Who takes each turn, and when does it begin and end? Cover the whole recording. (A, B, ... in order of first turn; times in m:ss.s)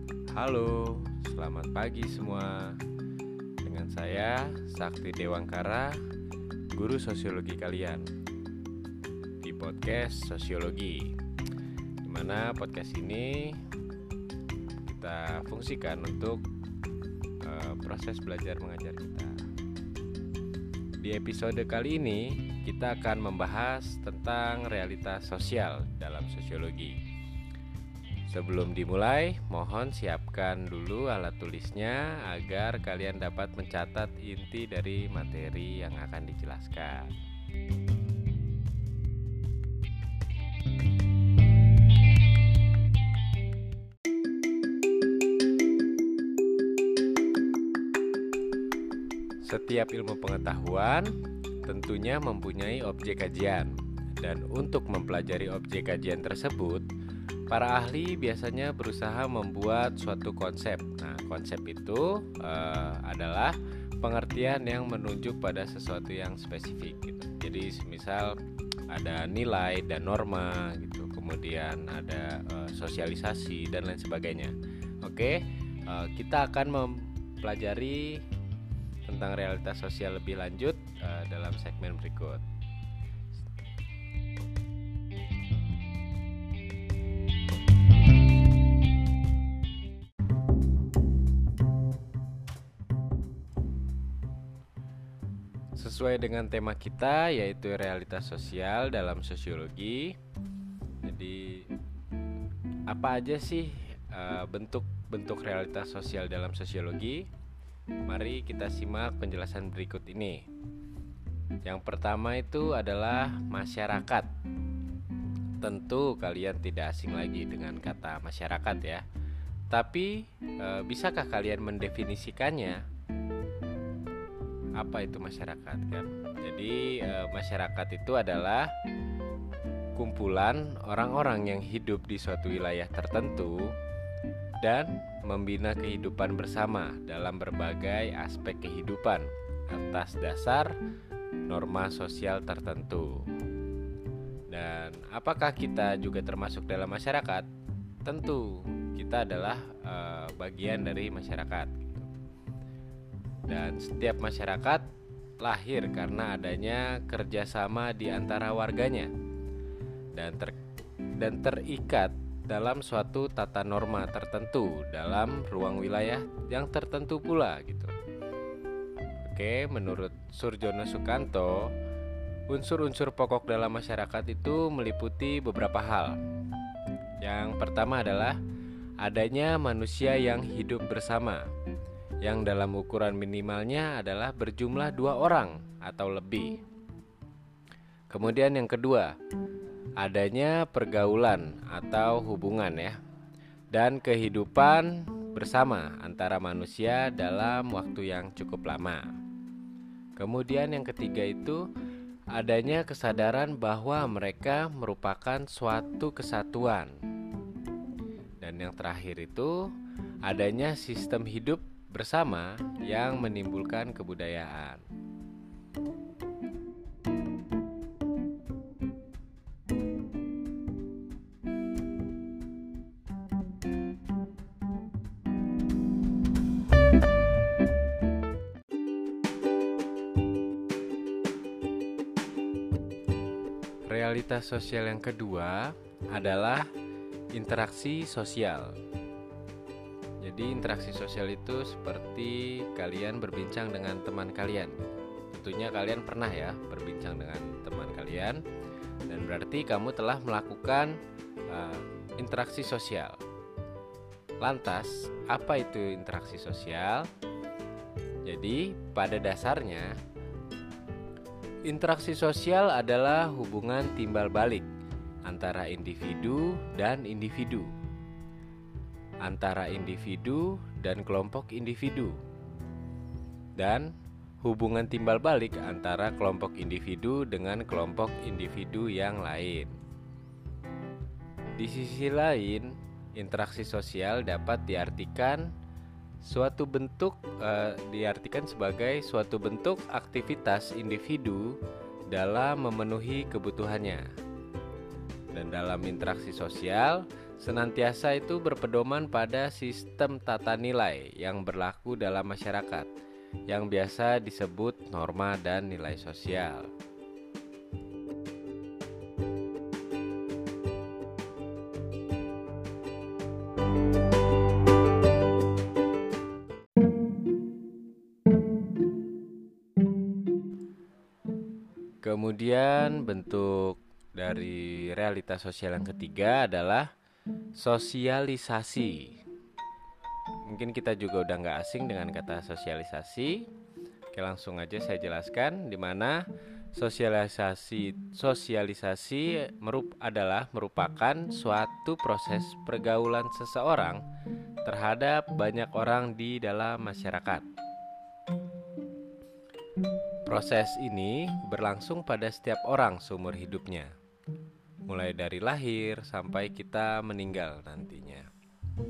0:00.3-0:02.8 A
0:03.6-0:06.0 A
0:06.7-0:08.1 A
0:09.4-0:11.2 A
0:12.0-0:13.6 A
0:14.8-0:16.4 A
0:17.4-0:19.4 A
0:21.0-0:27.0 A
0:28.3-0:37.1 A
0:49.4-0:56.9 A
0:57.5-1:08.4 A
1:08.9-1:18.3 A
1:19.0-1:22.4 A
1:35.8-1:40.2 A
1:41.0-1:41.7 A
1:42.9-1:47.3 A
1:48.1-1:50.5 A
1:51.6-1:54.3 A
1:55.6-1:59.0 A
1:59.7-2:02.8 A
2:04.8-2:08.7 A
2:10.0-2:13.8 A
2:14.6-2:20.8 A
2:21.5-2:23.3 A
2:24.5-2:27.5 A
2:28.0-2:32.1 A
2:33.5-2:34.9 A
2:35.4-2:39.1 A
2:40.2-2:40.6 A
2:41.2-2:47.9 A
2:49.2-2:51.7 A
2:52.5-2:56.2 A
2:57.2-2:58.4 A
2:59.0-3:01.5 A
3:02.2-3:06.6 A
3:08.1-3:09.1 A
3:10.0-3:13.0 A
3:13.7-3:19.2 A
3:20.2-3:21.6 A
3:22.3-3:27.0 A
3:28.4-3:29.7 A
3:30.2-3:34.8 A
3:53.9-3:56.7 A
3:57.3-3:58.8 A
4:00.2-4:08.4 A
4:09.1-4:13.2 A
4:14.4-4:17.1 A
4:18.2-4:20.0 A
4:21.7-4:24.7 A
4:25.2-4:27.7 A
4:29.2-4:32.2 A
4:33.6-4:39.7 A
4:41.6-4:45.5 A
4:46.2-4:54.1 A
4:55.3-5:02.9 A
5:03.5-5:06.7 A
5:22.0-5:26.9 A
5:27.6-5:29.2 A
5:30.5-5:33.5 A
5:34.1-5:36.2 A
5:36.8-5:44.0 A
5:44.6-5:47.5 A
5:50.3-5:53.9 A
5:54.9-5:58.3 A